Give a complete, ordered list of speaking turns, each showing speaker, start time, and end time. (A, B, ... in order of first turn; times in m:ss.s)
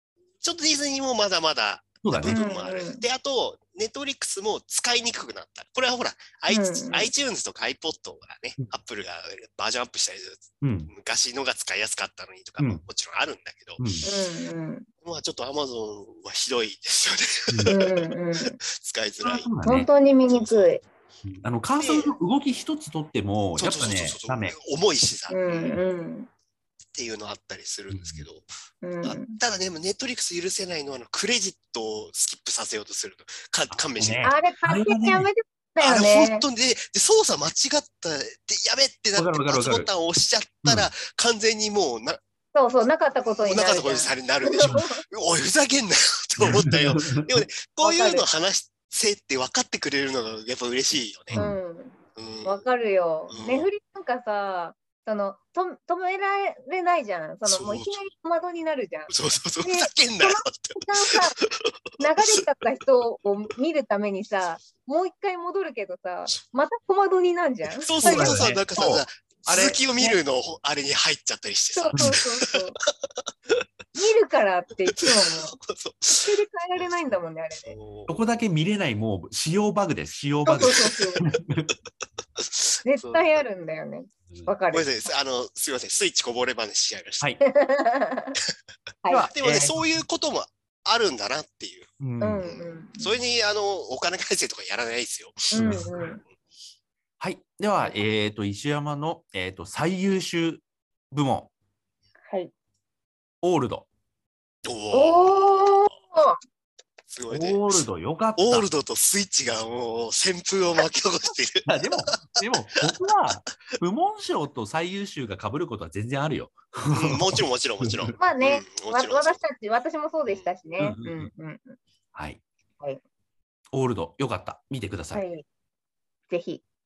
0:00.4-0:13.8 A
0:02.0-0:02.4 B
0:02.2-0:03.0 C
0:06.5-0:07.1 C
0:10.6-0:10.9 B
0:13.8-0:14.1 B
0:14.0-0:14.9 C
0:15.0-0:19.5 A
0:17.5-0:17.8 B
0:17.7-0:18.6 C
0:19.2-0:19.9 B
0:19.6-0:20.8 C
0:20.3-0:20.8 A
0:21.2-0:24.6 B
0:21.8-0:22.1 A
0:23.6-0:25.8 A
0:25.3-0:26.3 C
0:27.0-0:28.5 A
0:27.9-0:28.2 B
0:28.8-0:29.4 C
0:29.0-0:34.3 A
0:33.7-0:35.3 B
0:34.2-0:36.4 C
0:35.8-0:42.2 A
0:39.2-0:39.9 B
0:42.5-0:45.0 C
0:43.3-0:51.4 A
0:46.4-0:47.5 B
0:47.8-0:48.2 C
0:51.3-0:51.6 B
0:51.3-1:01.4 C
0:52.2-0:52.6 A
0:53.3-0:53.7 A
0:57.4-0:58.0 A
0:59.1-1:02.5 A
1:02.0-1:08.5 C
1:07.8-1:12.6 A
1:08.0-1:10.2 B
1:11.8-1:12.8 C
1:14.0-1:15.6 C
1:14.9-1:17.0 A
1:16.1-1:17.8 C
1:17.7-1:18.2 A
1:18.1-1:21.7 B
1:20.5-1:21.2 C
1:20.6-1:21.0 A
1:22.4-1:23.4 A
1:22.8-1:24.9 C
1:24.7-1:27.3 A
1:27.4-1:28.4 C
1:29.0-1:29.3 C
1:29.1-1:30.0 B
1:29.3-1:36.0 A
1:32.0-1:32.4 B
1:32.2-1:33.1 C
1:35.5-1:36.2 C
1:35.6-1:35.9 B
1:37.2-1:41.5 B
1:43.4-1:43.9 B
1:44.6-1:45.7 A
1:44.9-1:46.4 C
1:47.1-1:47.8 A
1:47.3-1:48.7 B
1:48.4-1:52.4 A
1:51.6-1:58.2 B
1:56.9-1:59.4 A
1:58.2-2:01.8 C
2:00.8-2:01.3 B
2:02.1-2:02.4 B
2:03.7-2:05.2 B
2:05.1-2:05.4 C
2:06.3-2:06.6 C